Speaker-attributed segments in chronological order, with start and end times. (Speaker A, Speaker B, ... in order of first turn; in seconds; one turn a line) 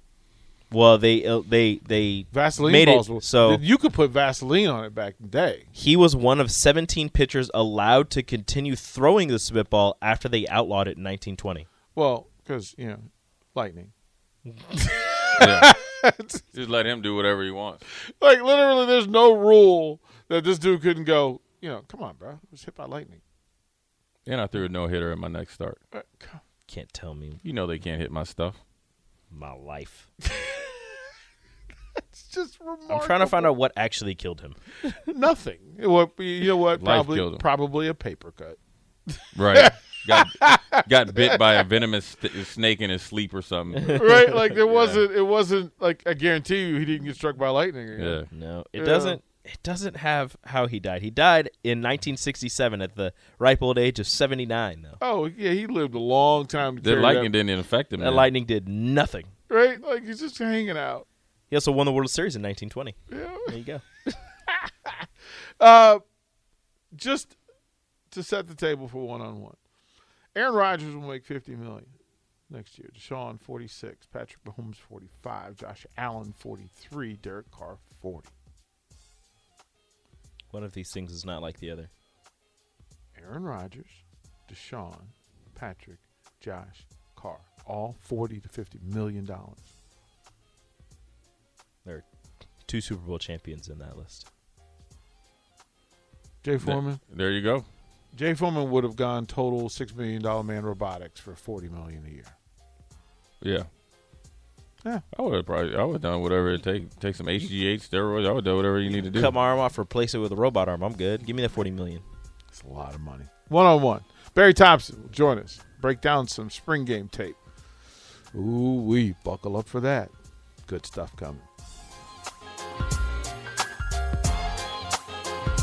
Speaker A: 0.7-3.6
Speaker B: 2.3-5.7
Speaker A: 5.7-11.7
Speaker B: 11.9-13.9
Speaker B: 14.7-16.4
Speaker C: 15.4-15.7
Speaker C: 16.5-17.8
Speaker B: 18.0-23.2
Speaker C: 24.3-25.8
Speaker B: 25.9-26.4
Speaker A: 26.7-27.4
Speaker C: 27.4-28.6
Speaker A: 29.3-30.1
Speaker B: 30.3-30.7
Speaker B: 32.0-33.6
Speaker A: 32.9-34.6
Speaker B: 35.0-38.6
Speaker C: 36.7-37.5
Speaker B: 39.1-40.8
Speaker C: 39.3-44.0
Speaker A: 43.8-45.0
Speaker B: 44.0-49.2
Speaker C: 48.0-48.3
Speaker A: 48.3-55.0
Speaker B: 55.0-57.3
Speaker C: 56.8-58.3
Speaker A: 58.0-59.3
Speaker B: 59.5-61.1
Speaker A: 61.5-63.9
Speaker B: 63.1-63.5
Speaker B: 65.6-66.0
Speaker B: 66.9-67.4
Speaker B: 68.1-69.6
Speaker B: 70.3-71.9
Speaker B: 72.5-78.3
Speaker A: 80.5-81.9
Speaker B: 83.2-89.7
Speaker A: 92.7-94.3
Speaker B: 96.4-97.0
Speaker C: 96.6-97.7
Speaker B: 98.1-102.3
Speaker C: 103.4-103.7
Speaker C: 105.1-109.3
Speaker A: 109.0-112.0
Speaker B: 112.5-117.4
Speaker B: 118.3-120.1
Speaker B: 120.7-121.5